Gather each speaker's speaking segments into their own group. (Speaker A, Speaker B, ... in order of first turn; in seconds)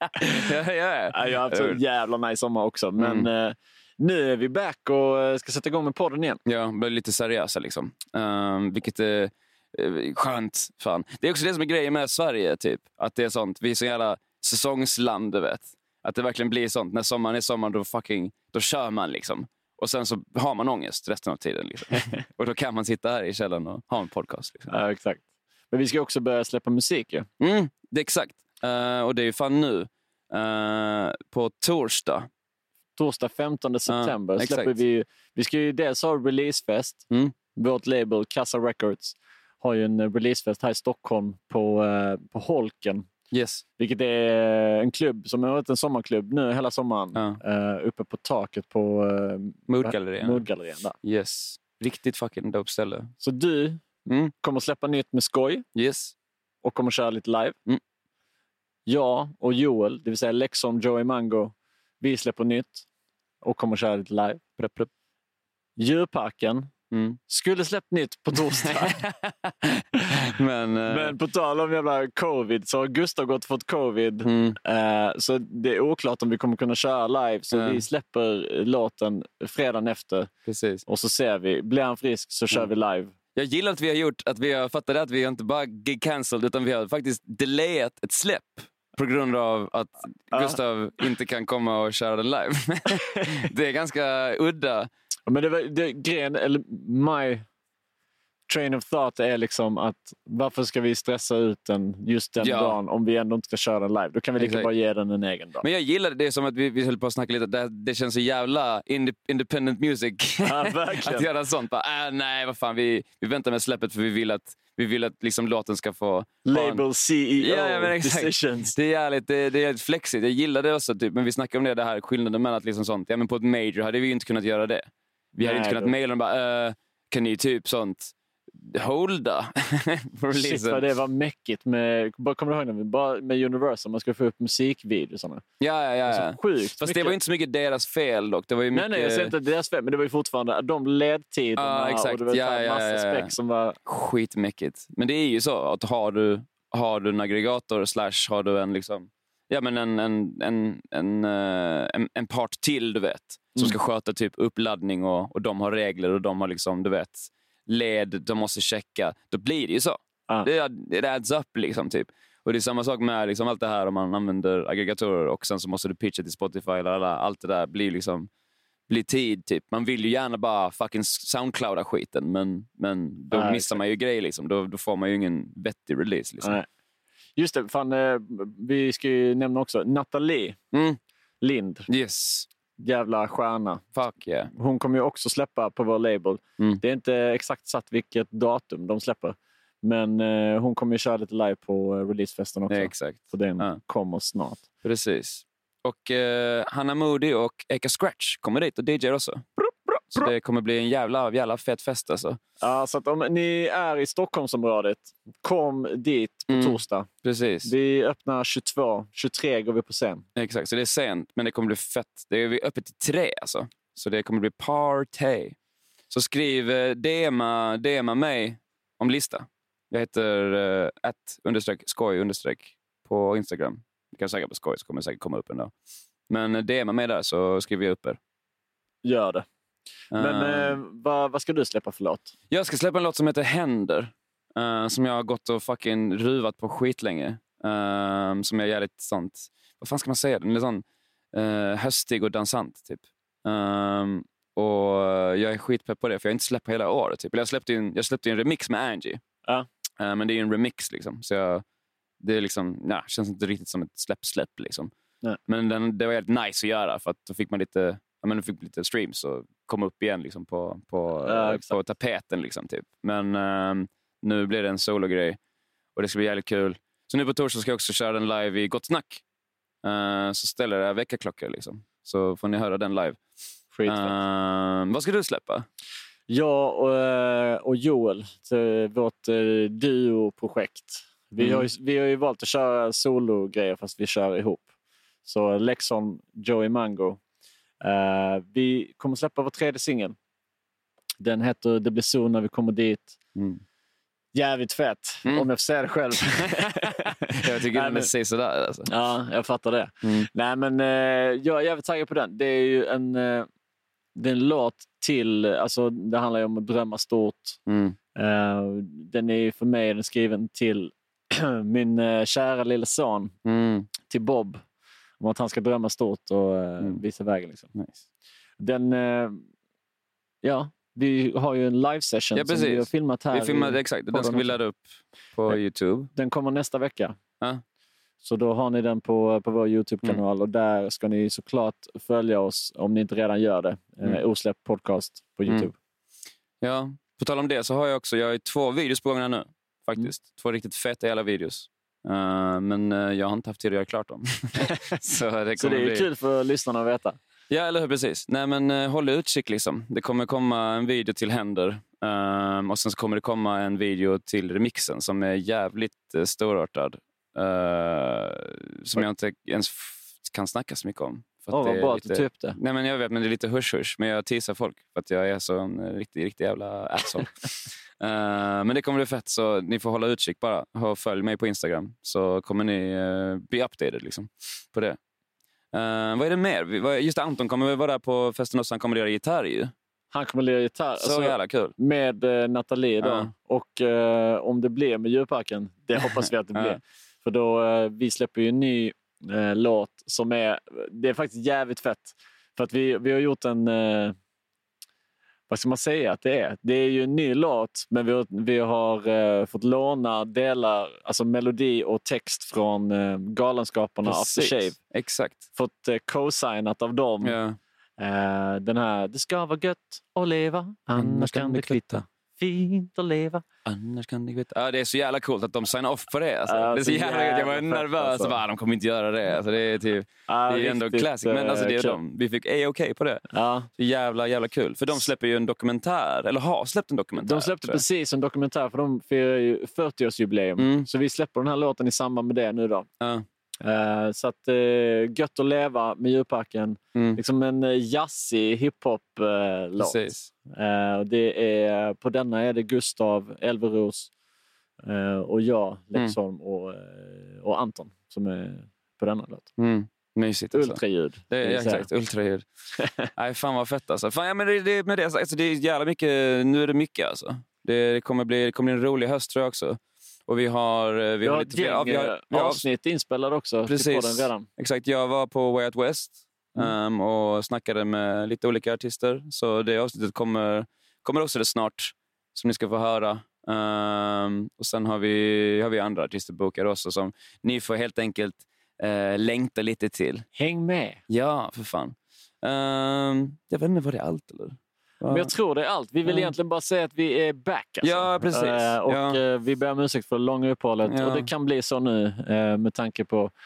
Speaker A: 0.2-1.8, 3.0-3.3, 6.4-24.7, 27.4-32.3, 33.9-34.8, 43.3-43.6, 47.1-47.4, 49.7-50.5, 51.0-53.1, 54.0-54.3, 55.7-56.1, 64.6-64.9, 66.9-67.2, 68.3-71.2, 74.2-74.6, 77.5-77.8, 80.5-80.8, 83.3-94.9, 102.4-102.8, 104.4-104.7, 105.6-116.8, 117.4-130.9, 135.6-139.3, 141.6-143.3, 143.8-168.3, 168.9-176.6, 180.7-181.0, 181.9-182.5, 183.9-184.5, 192.7-193.8, 194.8-199.4, 200.1-202.4, 206.5-207.7, 210.3-215.6, 216.1-225.7, 226.3-228.2, 230.1-230.8, 232.5-249.2, 250.0-251.6, 252.2-254.9, 255.5-265.4, 265.9-269.2, 269.8-273.2, 273.8-275.6, 281.4-281.7, 293.4-293.6, 296.2-298.9, 300.0-300.3, 307.7-308.0, 313.4-313.9, 317.7-318.0, 322.3-326.1, 336.6-346.1, 347.5-375.0, 375.7-379.7, 381.0-381.7, 383.0-383.3, 386.5-386.8, 404.0-405.4, 407.2-407.6, 410.9-412.0, 413.6-423.2, 423.8-427.8, 430.6-430.9, 433.0-433.2, 436.9-437.2, 439.8-440.3, 449.6-452.4, 453.1-462.6, 463.7-480.2, 481.1-485.3, 486.0-486.3, 487.8-489.2, 490.8-491.3
Speaker B: 1.1-6.4, 24.7-27.3, 33.0-37.0, 37.5-43.1, 43.8-50.9, 53.2-53.8, 54.3-55.6, 56.6-57.5, 58.9-62.9, 63.4-64.4, 65.8-66.7, 67.3-69.0, 70.9-80.3, 80.8-83.1, 90.3-90.6, 95.3-97.5, 98.5-105.7, 110.4-111.3, 116.4-118.7, 125.4-126.0, 130.3-135.4, 136.1-137.2, 138.7-143.8, 173.3-173.8, 176.4-176.7, 177.3-180.6, 181.4-181.9, 182.8-183.9, 184.5-194.6, 199.6-200.3, 202.6-207.1, 207.6-210.2, 229.0-229.4, 230.2-232.3, 261.2-261.8, 273.7-274.2, 276.3-284.7, 285.2-287.2, 287.8-290.1, 291.2-293.1, 294.3-298.1, 298.9-303.5, 304.1-307.6, 308.1-313.3, 314.1-314.6, 315.2-317.7, 318.6-319.4, 320.4-324.6, 326.1-327.1, 328.2-335.7, 345.6-347.2, 361.5-362.6, 380.1-394.1, 395.5-404.8, 405.5-407.4, 408.0-413.4, 416.5-418.4, 420.3-422.0, 423.3-423.7, 427.2-432.9, 433.6-444.1, 444.8-449.5, 450.5-451.9, 461.2-464.4, 480.4-481.0, 485.1-493.3